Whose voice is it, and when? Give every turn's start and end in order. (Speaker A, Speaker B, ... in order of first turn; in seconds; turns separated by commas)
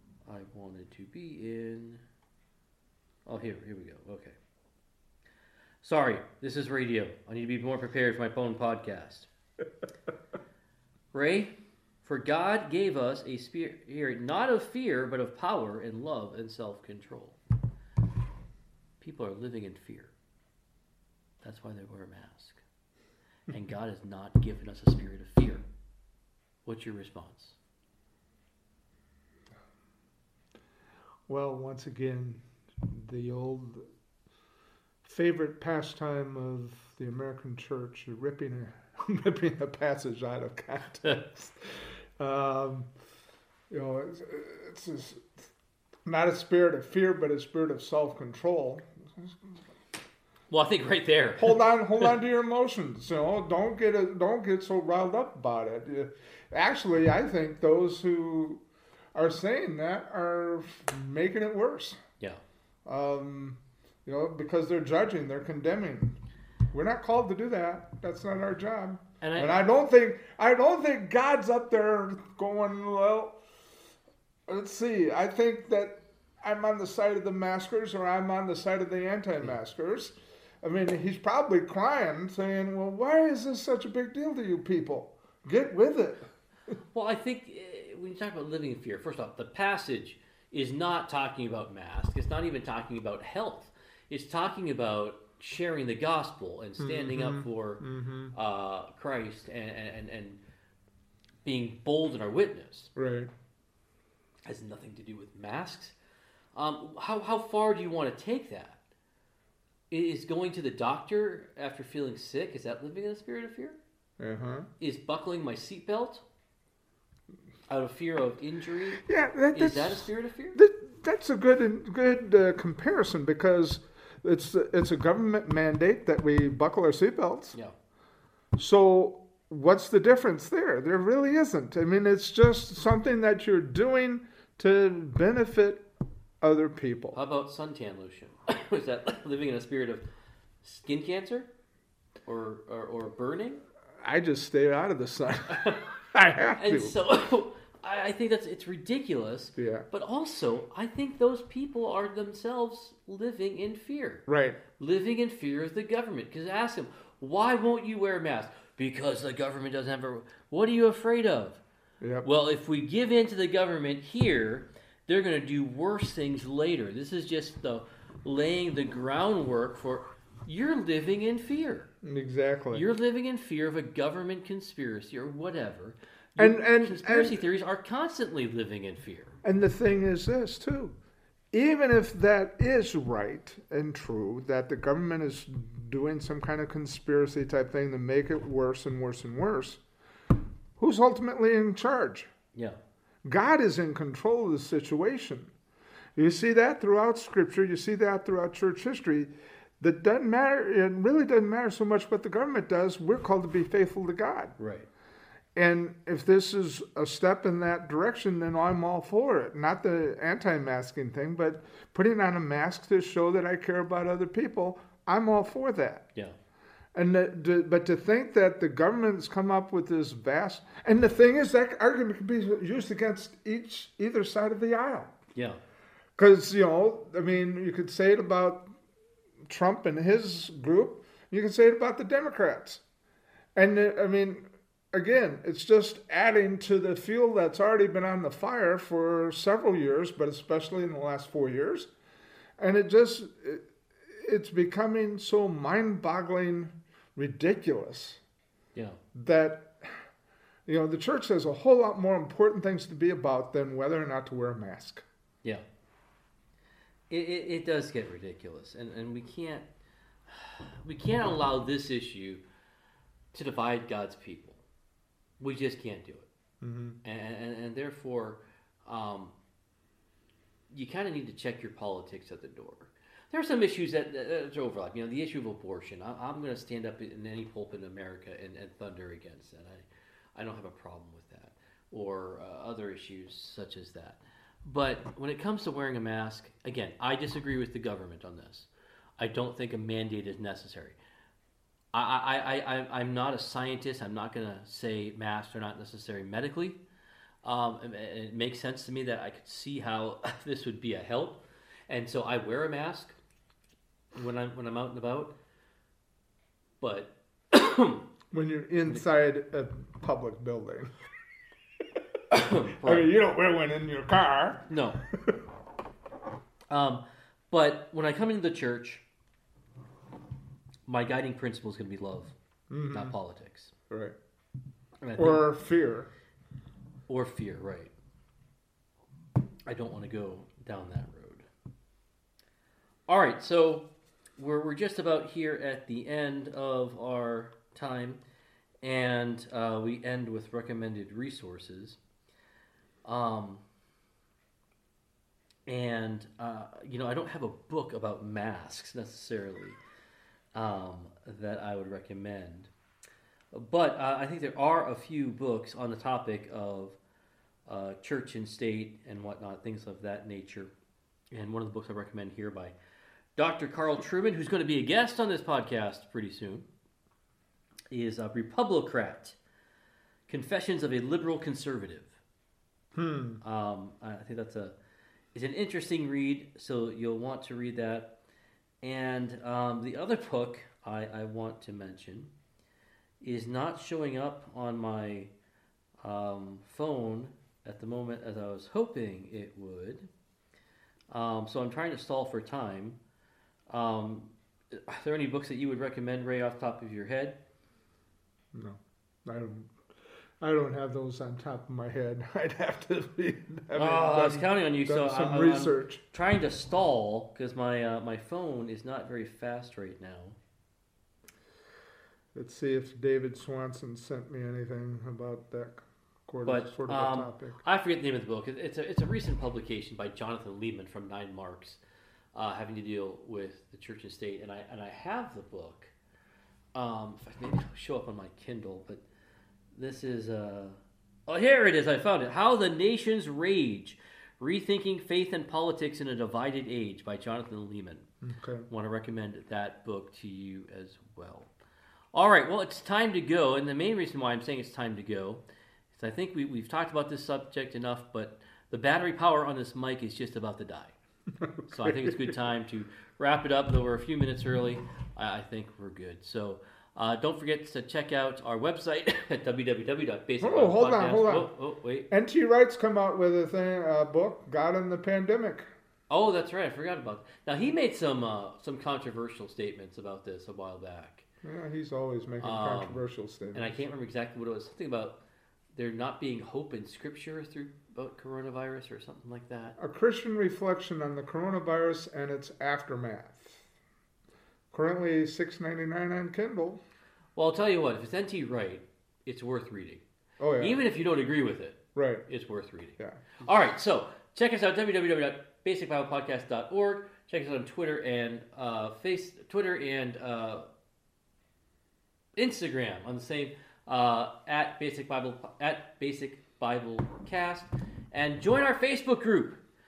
Speaker A: 0.2-2.0, Speaker A: 3.2-4.4, Speaker A: 5.8-9.3, Speaker A: 11.1-11.5, Speaker A: 12.0-17.4, Speaker A: 19.0-20.1, Speaker A: 21.4-22.6, Speaker A: 23.5-25.6, Speaker A: 26.6-27.6, Speaker B: 31.3-33.8, Speaker B: 35.0-42.9, Speaker B: 43.7-45.4, Speaker B: 46.1-49.5, Speaker A: 50.5-52.1, Speaker B: 51.4-58.6, Speaker B: 59.1-62.0, Speaker B: 62.9-66.2, Speaker B: 66.7-73.4, Speaker A: 69.2-69.6, Speaker B: 74.5-86.3, Speaker A: 86.9-100.4, Speaker B: 96.8-98.3, Speaker A: 101.5-102.9, Speaker B: 103.0-103.3, Speaker A: 104.5-106.0, Speaker A: 106.5-108.8, Speaker A: 109.9-113.8, Speaker B: 114.2-114.7, Speaker A: 114.8-116.2, Speaker A: 117.7-120.6, Speaker B: 119.0-127.6, Speaker B: 128.6-135.8, Speaker B: 136.4-137.2, Speaker A: 137.1-140.0, Speaker A: 140.6-141.5, Speaker A: 142.2-143.6, Speaker B: 144.0-147.0, Speaker A: 145.5-145.8, Speaker A: 146.6-154.2, Speaker B: 149.6-149.9, Speaker B: 154.3-154.6, Speaker A: 154.8-161.6, Speaker B: 162.0-162.3, Speaker A: 162.2-171.9, Speaker B: 172.0-172.9, Speaker A: 172.7-179.3, Speaker B: 176.4-177.4, Speaker B: 179.4-180.9, Speaker B: 181.5-189.8, Speaker B: 190.8-192.3, Speaker B: 193.2-195.5, Speaker B: 196.2-204.5, Speaker A: 204.6-204.9, Speaker B: 205.6-216.1, Speaker B: 216.9-225.2, Speaker A: 225.3-225.6, Speaker B: 226.2-228.7, Speaker B: 229.5-232.8, Speaker B: 233.5-241.9, Speaker B: 242.6-248.2, Speaker B: 249.1-250.0, Speaker B: 250.7-255.0, Speaker A: 257.1-259.7, Speaker A: 260.3-262.4, Speaker A: 263.3-264.6, Speaker A: 265.4-266.3, Speaker B: 266.6-267.0, Speaker A: 267.0-269.3, Speaker A: 270.7-291.0, Speaker A: 291.9-296.8, Speaker A: 297.4-303.2, Speaker A: 304.2-305.3, Speaker A: 306.8-308.0, Speaker B: 308.3-310.9, Speaker A: 312.3-313.1, Speaker B: 312.4-315.4, Speaker A: 314.7-315.0, Speaker A: 316.7-319.0, Speaker A: 320.9-322.3, Speaker B: 322.7-323.1, Speaker A: 322.9-323.7, Speaker B: 323.9-324.2, Speaker A: 325.0-325.5, Speaker B: 325.2-326.1, Speaker A: 327.1-327.9, Speaker A: 329.7-331.5, Speaker A: 333.1-338.2, Speaker A: 338.8-342.0, Speaker A: 343.0-343.6, Speaker A: 345.7-349.8, Speaker A: 350.5-352.7, Speaker A: 353.5-357.0, Speaker A: 357.7-360.7, Speaker A: 361.3-362.7, Speaker A: 363.4-366.7, Speaker A: 367.9-369.4, Speaker A: 370.3-372.2, Speaker B: 372.9-373.4, Speaker A: 373.4-374.8, Speaker A: 375.3-378.1, Speaker A: 378.8-382.3, Speaker A: 383.2-385.3, Speaker A: 386.0-390.1, Speaker A: 391.1-393.0, Speaker A: 393.7-397.4, Speaker B: 398.5-399.8, Speaker B: 400.4-406.0, Speaker A: 403.8-410.4, Speaker B: 412.3-417.6, Speaker A: 416.4-421.8, Speaker A: 422.3-425.9, Speaker A: 426.8-429.0, Speaker A: 429.8-438.1, Speaker B: 438.2-438.7, Speaker A: 438.7-441.5, Speaker A: 442.1-445.4, Speaker A: 445.9-450.9, Speaker B: 451.4-452.4, Speaker A: 451.7-462.1, Speaker B: 460.4-461.5, Speaker B: 462.1-465.7, Speaker A: 466.1-471.2, Speaker B: 471.4-473.7, Speaker A: 472.4-475.2, Speaker A: 475.8-479.8, Speaker B: 479.8-483.7, Speaker B: 484.7-486.8, Speaker A: 487.4-490.0, Speaker B: 490.4-490.8, Speaker A: 490.6-500.7, Speaker B: 491.9-492.2, Speaker A: 502.4-509.6